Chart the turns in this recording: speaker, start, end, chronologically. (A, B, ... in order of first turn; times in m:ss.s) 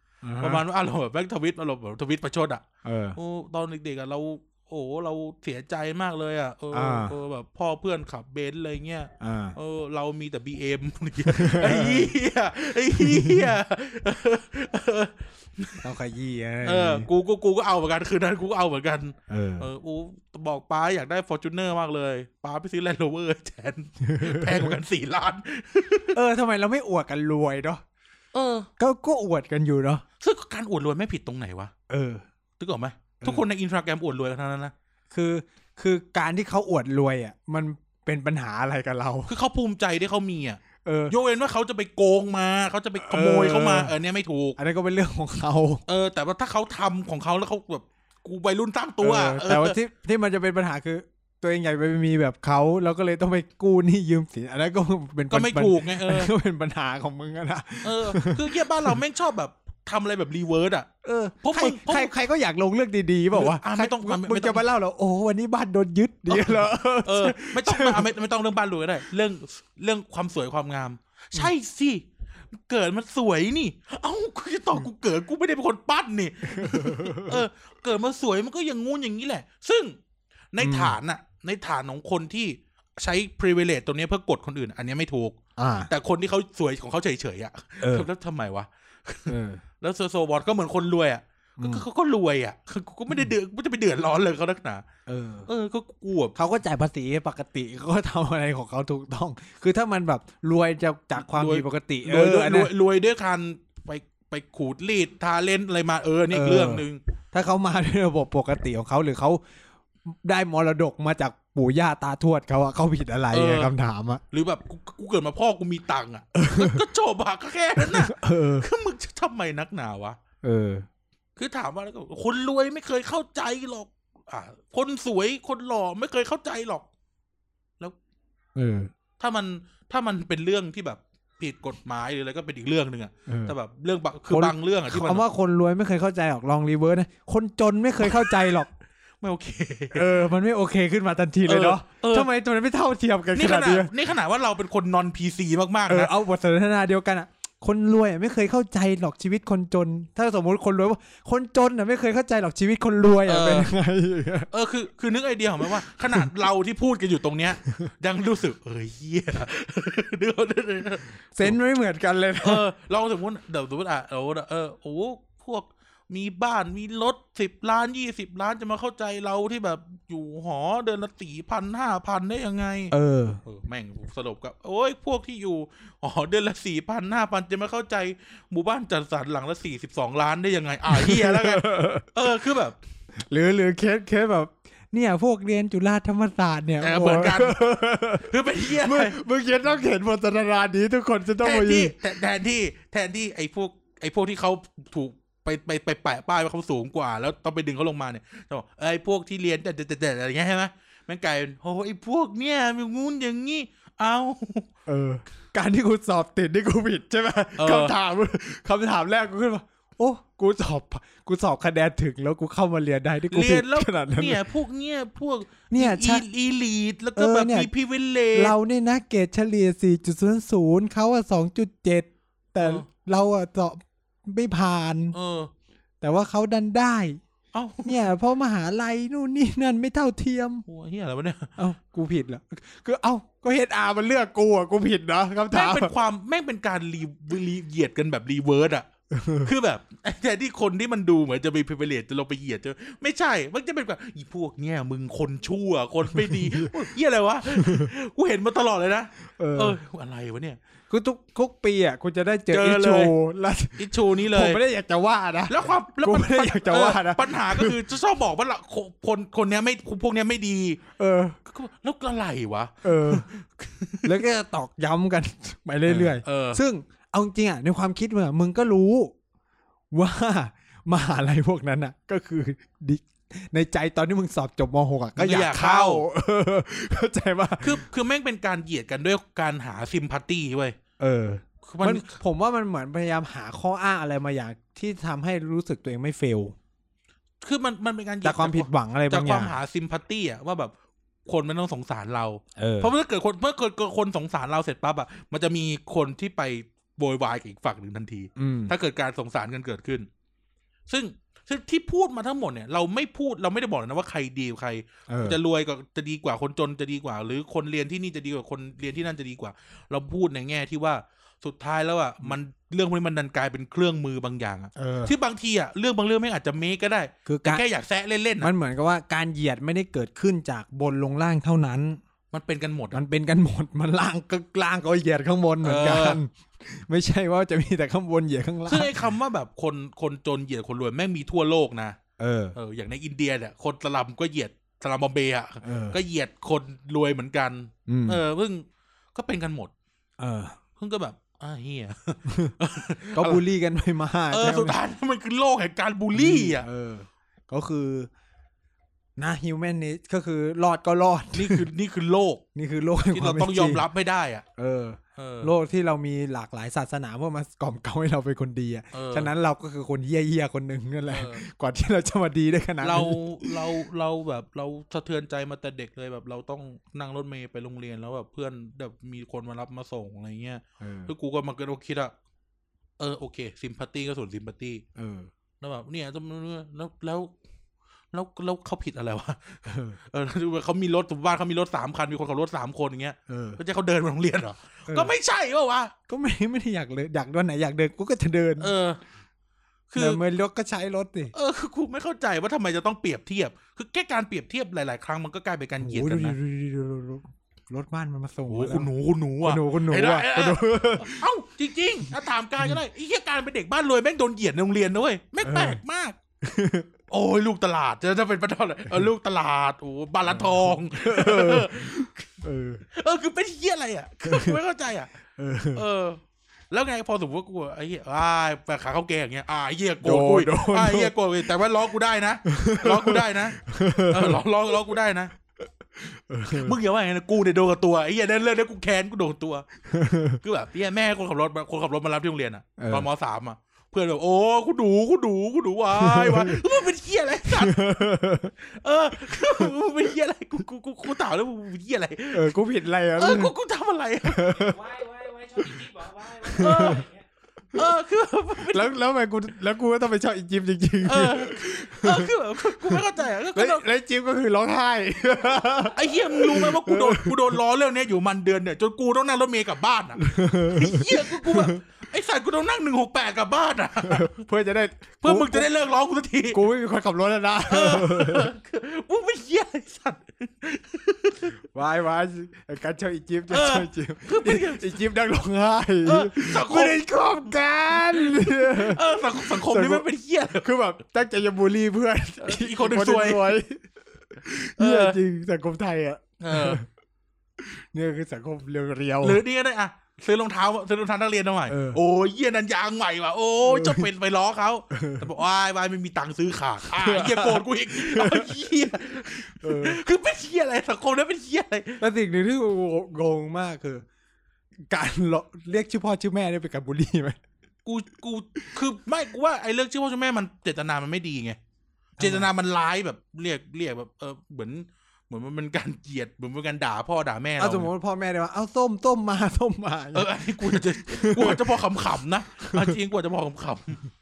0:00.2-0:00.6 A
0:00.4-0:15.9 B
0:02.8-0:03.2 A
0:06.7-0:07.2 A
0:09.2-0:09.6 A
0:11.3-0:12.1 A
0:13.0-0:13.5 A
0:15.8-0:17.1 A
0:16.6-0:26.2 B
0:19.3-0:19.7 A
0:24.1-0:24.7 A
0:26.1-0:27.8 A
0:28.3-0:28.7 B
0:28.8-0:30.0 A
0:30.2-0:31.7 B
0:31.9-0:32.2 A
0:32.6-0:34.7 B
0:35.1-0:39.3 A
0:39.3-0:44.6 B
0:40.8-0:41.1 A
0:43.0-0:43.9 A
0:44.6-0:45.8 A
0:45.9-0:49.8 B
0:49.0-0:59.0 A
0:55.3-0:56.3 B
0:57.8-1:00.9 B
1:01.0-1:08.1 A
1:01.4-1:02.1 B
1:03.3-1:04.6 B
1:06.3-1:20.0 B
1:16.5-1:17.4 A
1:20.5-1:34.8 B
1:20.6-1:21.0 A
1:25.6-1:25.9 A
1:27.8-1:28.1 A
1:29.3-1:29.6 A
1:31.6-1:31.8 A
1:35.1-1:35.5 A
1:35.4-1:36.3 B
1:36.3-1:42.7 A
1:41.2-1:47.0 B
1:46.3-1:49.4 A
1:50.0-1:54.2 A
1:53.3-1:53.7 B
1:54.3-2:00.2 B
1:56.4-1:56.8 A
1:57.8-1:58.7 A
2:00.4-2:00.9 A
2:01.4-2:06.8 B
2:08.5-2:08.9 A
2:09.2-2:15.2 B
2:13.3-2:13.6 A
2:14.3-2:18.7 A
2:18.1-2:18.5 B
2:19.2-2:20.1 B
2:19.9-2:23.9 A
2:21.4-2:22.3 B
2:23.3-2:26.1 B
2:25.9-2:34.5 A
2:33.2-2:33.7 B
2:34.5-2:41.6 B
2:41.3-2:42.6 A
2:42.4-2:52.9 B
2:52.9-2:53.4 A
2:53.4-3:02.8 B
3:00.9-3:02.1 A
3:03.2-3:11.9 A
3:06.8-3:07.6 B
3:08.2-3:09.2 B
3:11.4-3:24.7 B
3:24.8-3:34.4 A
3:27.6-3:27.9 B
3:33.3-3:38.5 B
3:35.7-3:36.2 A
3:37.2-3:37.7 A
3:38.3-3:45.1 A
3:42.6-3:42.8 B
3:45.1-3:45.5 B
3:46.0-3:47.2 A
3:47.5-3:48.0 B
3:47.8-3:50.6 A
3:50.6-3:51.5 B
3:51.6-3:55.9 A
3:55.5-4:10.6 B
3:59.1-3:59.5 A
4:06.1-4:06.8 A
4:07.5-4:07.9 A
4:09.2-4:09.8 A
4:10.9-4:17.8 A
4:12.5-4:13.1 B
4:13.8-4:14.6 B
4:15.5-4:20.8 B
4:21.0-4:21.4 A
4:21.4-4:24.2 B
4:22.8-4:23.2 A
4:24.0-4:29.1 A
4:25.8-4:26.6 B
4:29.9-4:37.8 A
4:35.2-4:36.0 B
4:37.6-4:40.8 B
4:41.0-4:46.6 A
4:41.6-4:42.2 B
4:47.4-4:50.7 B
4:48.2-4:49.5 A
4:51.2-5:00.1 B
4:52.6-4:52.9 A
4:58.4-4:58.7 A
5:00.9-5:18.5 B
5:05.1-5:05.4 A
5:14.8-5:15.1 A
5:17.2-5:17.6 A
5:18.4-5:22.0 A
5:22.3-5:23.0 B
5:22.9-5:28.9 A
5:25.6-5:26.2 B
5:28.7-5:32.0 B
5:32.2-5:32.6 A
5:32.5-5:39.7 B
5:35.6-5:36.0 A
5:37.9-5:38.2 A
5:40.2-5:40.6 A
5:40.8-5:43.4 B
5:42.3-5:42.5 A
5:43.1-5:44.8 A
5:44.3-5:46.7 B
5:46.1-5:48.1 A
5:49.2-5:51.6 A
5:51.3-5:52.4 B
5:52.5-5:53.8 A
5:53.1-5:54.4 B
5:54.6-6:03.7 A
5:55.2-5:55.5 B
5:58.9-5:59.3 B
6:01.1-6:01.4 B
6:02.8-6:12.1 B
6:10.8-6:11.1 A
6:13.0-6:14.8 B
6:15.0-6:15.3 A
6:15.6-6:17.3 B
6:18.1-6:25.9 B
6:19.7-6:20.0 A
6:23.3-6:23.6 A
6:24.9-6:25.1 A
6:26.1-6:28.7 A
6:28.6-6:29.0 B
6:29.9-6:30.2 B
6:30.0-6:31.3 A
6:31.3-6:36.4 B
6:35.8-6:41.2 A
6:38.5-6:46.2 B
6:45.4-6:45.8 A
6:46.4-6:46.9 A
6:47.1-6:52.3 B
6:50.3-6:52.8 A
6:52.9-6:55.1 B
6:54.2-6:54.6 A
6:55.4-6:55.8 A
6:55.7-7:05.3 B
7:00.0-7:01.1 A
7:02.4-7:05.0 A
7:06.0-7:06.8 A
7:06.5-7:09.7 B
7:09.9-7:10.4 A
7:10.3-7:17.9 B
7:12.8-7:13.1 A
7:16.0-7:16.6 A
7:17.5-7:18.6 A
7:18.6-7:22.6 B
7:22.3-7:23.5 A
7:23.1-7:24.6 B
7:24.2-7:24.8 A
7:24.4-7:27.2 C
7:26.4-7:27.0 A
7:26.6-7:27.0 B
7:27.7-7:29.0 B
7:28.7-7:37.6 A
7:31.0-7:33.8 B
7:35.9-7:44.4 B
7:40.2-7:41.8 A
7:44.1-7:45.7 A
7:45.2-7:46.6 B
7:46.5-7:48.5 A
7:47.7-7:51.6 B
7:51.7-8:00.1 A
7:53.5-7:55.0 B
7:56.0-7:57.2 B
7:57.9-8:00.7 B
8:00.6-8:06.8 A
8:02.4-8:03.6 B
8:04.8-8:05.2 B
8:06.4-8:06.8 B
8:07.6-8:09.4 A
8:09.2-8:22.0 B
8:11.7-8:12.0 A
8:13.6-8:14.1 A
8:14.9-8:15.3 A
8:16.9-8:18.7 A
8:19.4-8:20.0 A
8:22.0-8:24.0 A
8:24.8-8:27.4 A
8:27.8-8:31.6 B
8:32.2-8:32.5 A
8:32.2-8:37.9 B
8:37.6-8:41.8 A
8:40.1-8:44.0 B
8:42.6-8:43.0 A